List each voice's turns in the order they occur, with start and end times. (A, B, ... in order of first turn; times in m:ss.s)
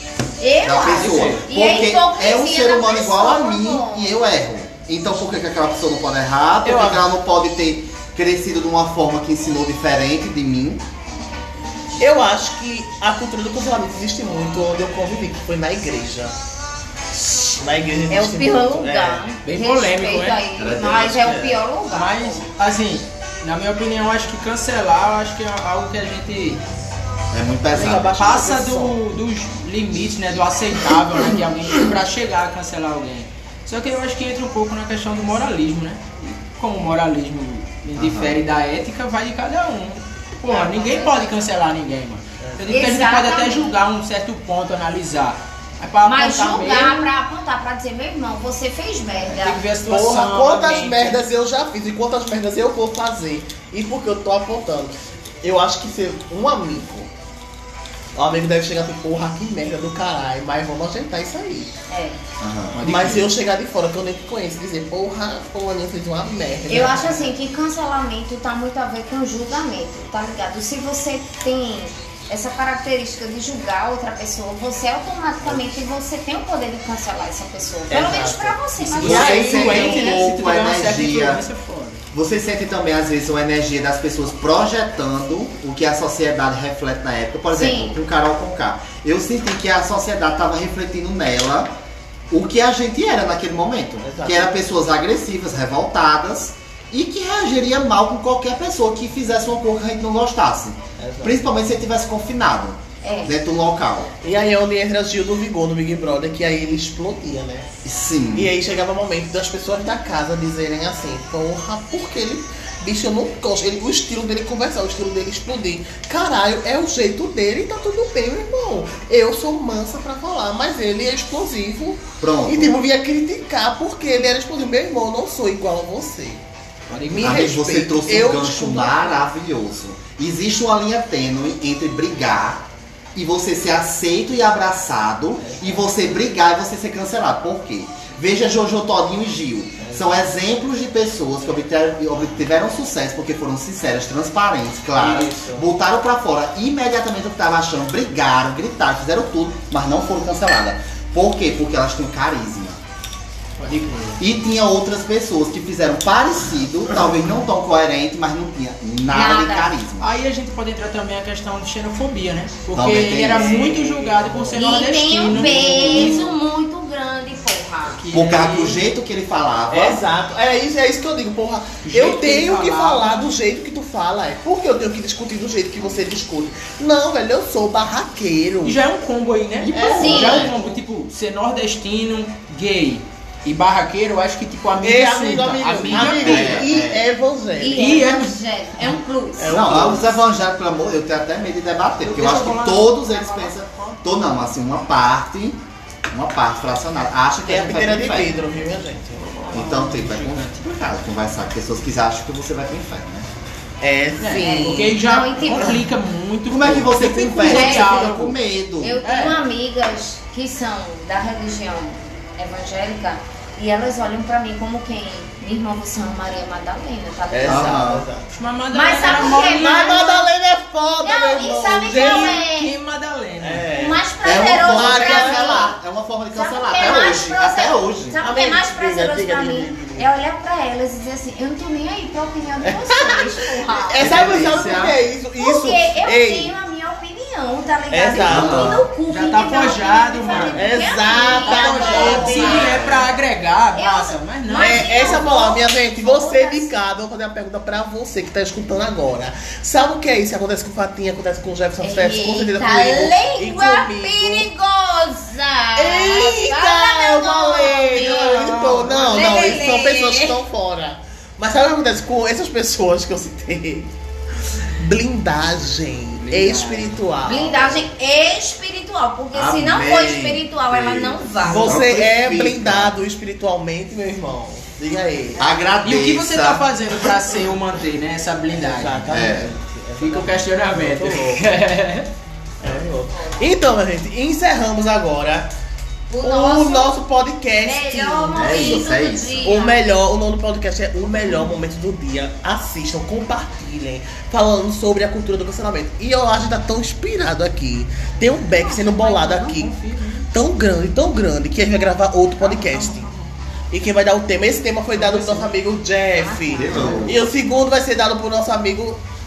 0:00.4-0:04.2 A
0:00.6-0:10.8 B
0:00.9-0:01.5 C
0:06.6-0:07.0 C
0:12.0-0:16.3 D
0:17.6-0:19.2 D
0:18.1-0:22.4 A
0:19.4-0:20.4 C
0:20.6-0:21.6 B
0:21.9-0:26.6 C
0:27.3-0:28.2 B
0:27.7-0:29.0 D
0:28.2-0:47.0 C
0:38.0-0:38.4 B
0:40.5-0:41.0 A
0:42.4-0:42.8 D
0:42.7-0:43.7 A
0:46.0-0:49.6 A
0:49.3-0:51.2 C
0:49.9-0:57.1 D
0:58.2-1:01.7 D
1:01.9-1:02.2 A
1:02.4-1:02.8 B
1:02.8-1:03.3 C
1:02.8-1:07.3 D
1:06.7-1:20.2 A
1:17.9-1:20.0 D
1:19.0-1:22.0 C
1:19.0-1:21.4 B
1:22.1-1:31.7 B
1:27.5-1:28.0 A
1:32.3-1:44.1 B
1:34.0-1:34.6 D
1:41.0-1:41.4 D
1:43.0-1:43.4 A
1:44.2-1:47.7 D
1:47.8-1:48.5 B
1:48.3-2:06.4 D
2:02.2-2:02.7 B
2:06.9-2:07.5 C
2:07.1-2:09.2 D
2:07.2-2:32.8 B
2:15.4-2:15.9 D
2:19.8-2:20.2 D
2:24.9-2:25.6 D
2:33.6-2:34.2 C
2:34.2-2:40.1 B
2:39.1-2:39.8 A
2:40.0-2:46.4 C
2:42.7-2:43.5 B
2:43.3-2:44.7 D
2:44.5-2:48.0 A
2:45.3-2:46.1 B
2:47.9-2:48.9 C
2:48.1-2:50.0 B
2:49.7-2:58.8 D
2:51.8-2:53.3 C
2:58.6-3:06.7 C
2:59.7-3:00.7 D
2:59.7-3:00.5 B
2:59.9-3:00.5 A
3:04.8-3:08.1 D
3:05.9-3:07.1 B
3:07.6-3:09.6 A
3:07.7-3:09.0 C
3:09.4-3:10.2 D
3:09.4-3:18.3 B
3:12.0-3:14.0 C
3:17.4-3:19.2 D
3:19.1-3:20.7 C
3:19.5-3:23.3 B
3:23.8-3:25.8 D
3:24.2-3:28.4 C
3:24.3-3:25.8 A
3:26.5-3:29.0 B
3:27.4-3:28.1 A
3:28.8-3:37.8 A
3:29.0-3:29.4 C
3:37.3-3:38.3 D
3:37.5-3:38.0 B
3:38.3-3:40.1 C
3:38.7-3:40.2 A
3:39.0-3:42.4 D
3:41.0-3:42.7 A
3:41.9-3:43.7 C
3:43.4-3:45.7 D
3:43.7-3:45.7 A
3:44.2-3:48.2 B
3:46.3-3:54.2 A
3:48.2-3:50.1 D
3:52.6-3:56.5 D
3:54.0-3:55.0 B
3:55.4-4:02.8 A
3:57.9-3:58.7 D
3:58.2-3:58.9 B
3:59.1-4:05.2 C
4:00.3-4:02.8 D
4:01.7-4:03.1 B
4:03.7-4:06.7 A
4:04.6-4:14.5 D
4:11.8-4:20.4 A
4:15.8-4:23.9 D
4:18.3-4:19.6 C
4:24.8-4:27.7 D
4:26.2-4:27.6 C
4:27.2-4:31.8 A
4:29.3-4:33.0 B
4:31.4-4:35.5 D
4:35.4-4:36.6 B
4:35.8-4:39.1 C
4:38.5-4:41.4 D
4:39.1-4:39.5 B
4:40.0-4:42.1 C
4:42.6-4:45.5 D
4:43.1-4:43.4 A
4:46.1-4:47.0 A
4:46.2-4:48.9 D
4:47.6-4:49.8 A
4:48.3-4:49.4 B
4:49.4-4:59.7 D
4:51.2-4:51.4 C
4:58.6-5:00.2 C
5:00.3-5:03.1 D
5:02.4-5:03.3 C
5:03.7-5:09.0 D
5:04.9-5:05.5 C
5:06.2-5:07.2 A
5:06.6-5:07.2 B